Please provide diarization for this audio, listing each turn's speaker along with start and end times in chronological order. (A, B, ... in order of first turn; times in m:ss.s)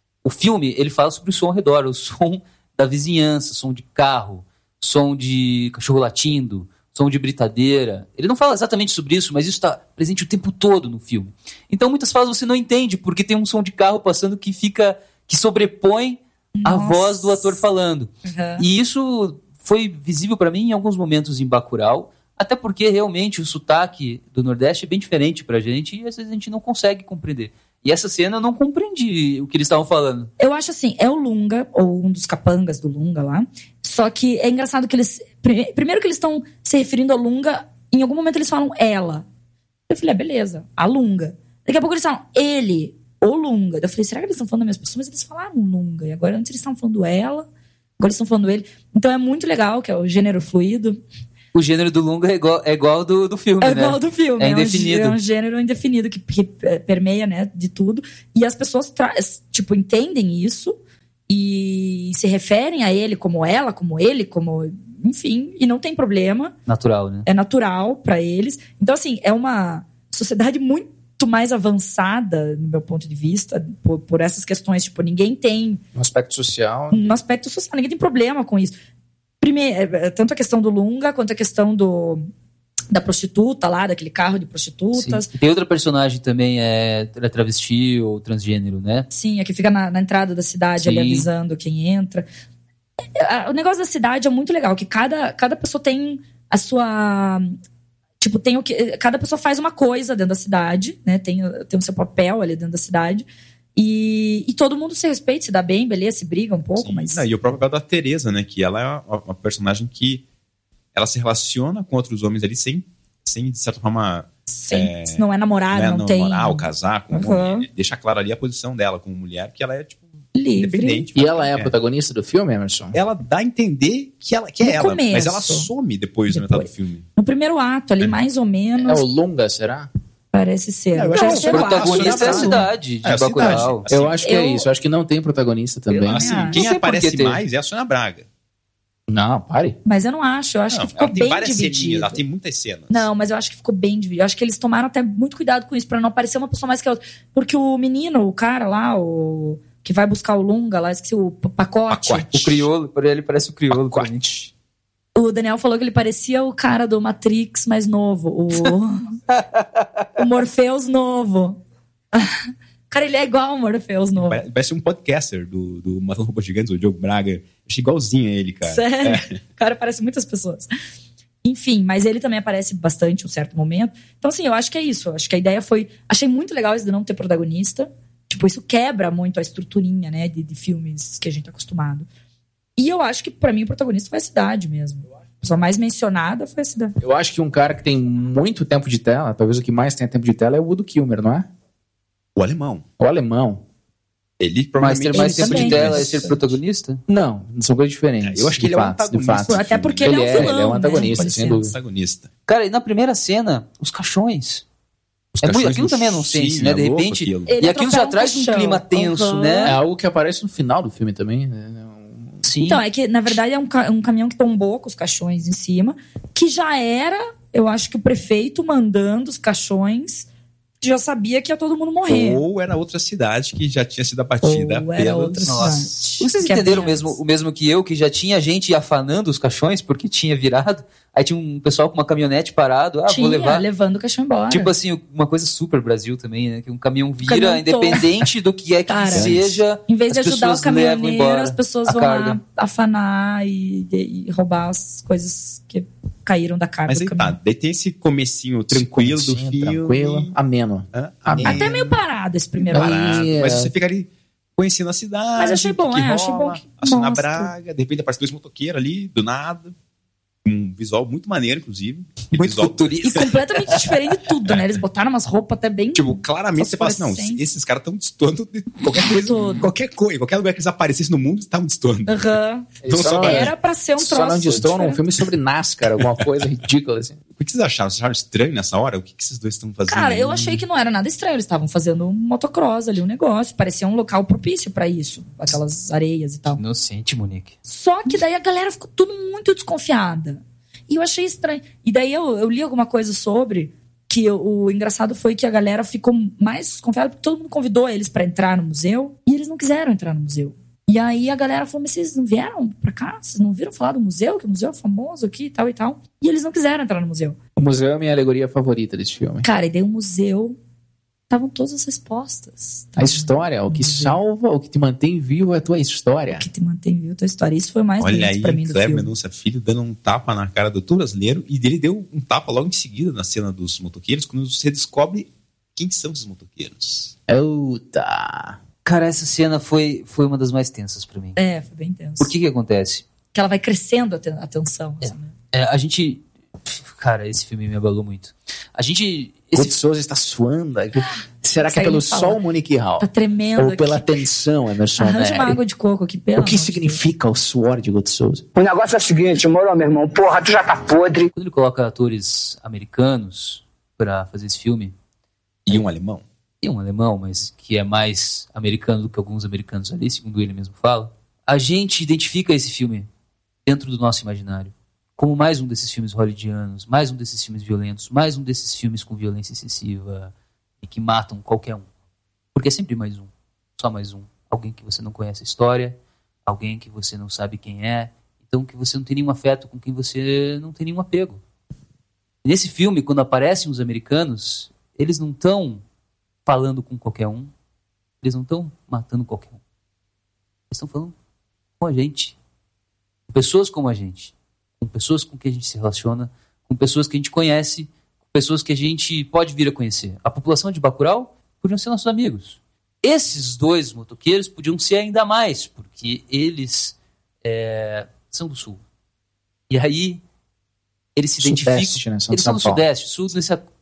0:00.2-0:30.3 A
0:16.6-0:17.4 B
0:18.2-0:18.6 B
0:30.4-0:39.3 B
0:39.9-0:47.5 B
0:48.0-0:51.0 B
0:51.5-0:55.2 A
0:53.6-1:00.8 B
1:01.3-1:06.5 B
1:06.7-1:07.3 A
1:07.2-1:15.8 B
1:16.0-1:17.1 C
1:16.9-1:18.7 B
1:19.4-1:22.3 B
1:22.9-1:25.3 B
1:25.0-1:29.1 A
1:29.1-1:32.3 B
1:30.8-1:31.3 A
1:33.2-1:37.6 B
1:38.2-1:47.3 B
1:46.8-1:50.2 D
1:50.9-2:00.0 D
1:54.5-1:57.7 B
2:00.4-2:01.1 B
2:00.5-2:01.7 D
2:01.2-2:03.0 C
2:02.9-2:07.1 D
2:04.6-2:05.7 B
2:06.3-2:09.1 B
2:08.8-2:09.9 C
2:10.3-2:12.6 B
2:11.0-2:14.2 D
2:11.2-2:13.9 A
2:11.2-2:12.4 C
2:13.5-2:16.6 C
2:14.2-2:14.7 B
2:15.9-2:16.6 B
2:16.0-2:18.3 D
2:16.5-2:17.4 A
2:19.1-2:19.8 C
2:19.8-2:22.2 B
2:20.7-2:23.1 D
2:22.9-2:32.4 B
2:31.9-2:32.7 D
2:32.3-2:34.4 A
2:35.2-2:39.2 B
2:39.3-2:40.0 A
2:40.2-2:41.6 B
2:42.1-2:44.4 B
2:44.2-2:49.4 D
2:48.6-2:50.7 B
2:51.4-3:02.1 B
3:02.8-3:07.0 B
3:07.0-3:11.5 C
3:12.4-3:12.8 D
3:13.0-3:13.6 C
3:14.4-3:16.5 D
3:14.8-3:17.0 A
3:15.1-3:16.4 C
3:15.1-3:16.2 B
3:17.1-3:21.8 C
3:18.2-3:22.3 D
3:19.5-3:21.6 B
3:22.5-3:24.6 A
3:25.3-3:27.6 D
3:25.4-3:29.8 A
3:27.5-3:29.8 B
3:29.6-3:32.4 C
3:32.4-3:32.8 A
3:32.7-3:40.3 B
3:40.8-3:42.4 B
3:42.1-3:45.9 D
3:44.4-3:47.2 B
3:45.5-3:53.6 A
3:53.1-3:54.7 B
3:54.5-4:02.4 A
3:57.2-3:58.1 B
3:58.9-3:59.4 B
3:59.2-3:59.6 D
3:59.9-4:07.4 B
4:06.9-4:10.3 D
4:08.7-4:11.7 C
4:10.9-4:12.0 D
4:11.4-4:13.1 B
4:12.6-4:19.7 D
4:12.7-4:13.7 C
4:15.4-4:17.5 B
4:20.4-4:23.4 D
4:22.3-4:23.4 A
4:23.0-4:27.4 B
4:26.0-4:33.5 D
4:29.0-4:29.7 B
4:32.1-4:35.0 B
4:32.8-4:37.2 C
4:37.4-4:40.6 D
4:39.9-4:46.6 B
4:46.6-4:47.6 A
4:47.7-5:07.4 B
5:07.6-5:09.4 C
5:09.4-5:10.6 B
5:11.3-5:14.2 B
5:13.0-5:16.4 C
5:16.3-5:19.1 B
5:18.0-5:27.2 D
5:27.3-5:28.6 C
5:28.8-5:31.4 A
5:31.4-5:32.3 B
5:32.2-5:33.0 A
5:33.3-5:35.3 B
5:35.0-5:39.8 A
5:39.6-5:45.6 C
5:41.6-5:42.4 B
5:43.0-5:44.2 B
5:45.0-5:47.0 B
5:46.4-5:48.4 C
5:48.6-5:51.3 E
5:51.4-5:54.9 A
5:55.7-5:56.2 D
5:56.6-6:03.1 A
6:03.6-6:10.3 A
6:10.8-6:11.9 A
6:12.5-6:21.4 A
6:22.4-6:25.8 A
6:26.5-6:27.5 A
6:28.2-6:29.6 A
6:30.7-6:31.1 A
6:31.8-6:32.4 A
6:33.3-6:48.8 A
6:49.7-6:50.2 A
6:51.2-6:53.6 A
6:51.4-6:52.8 C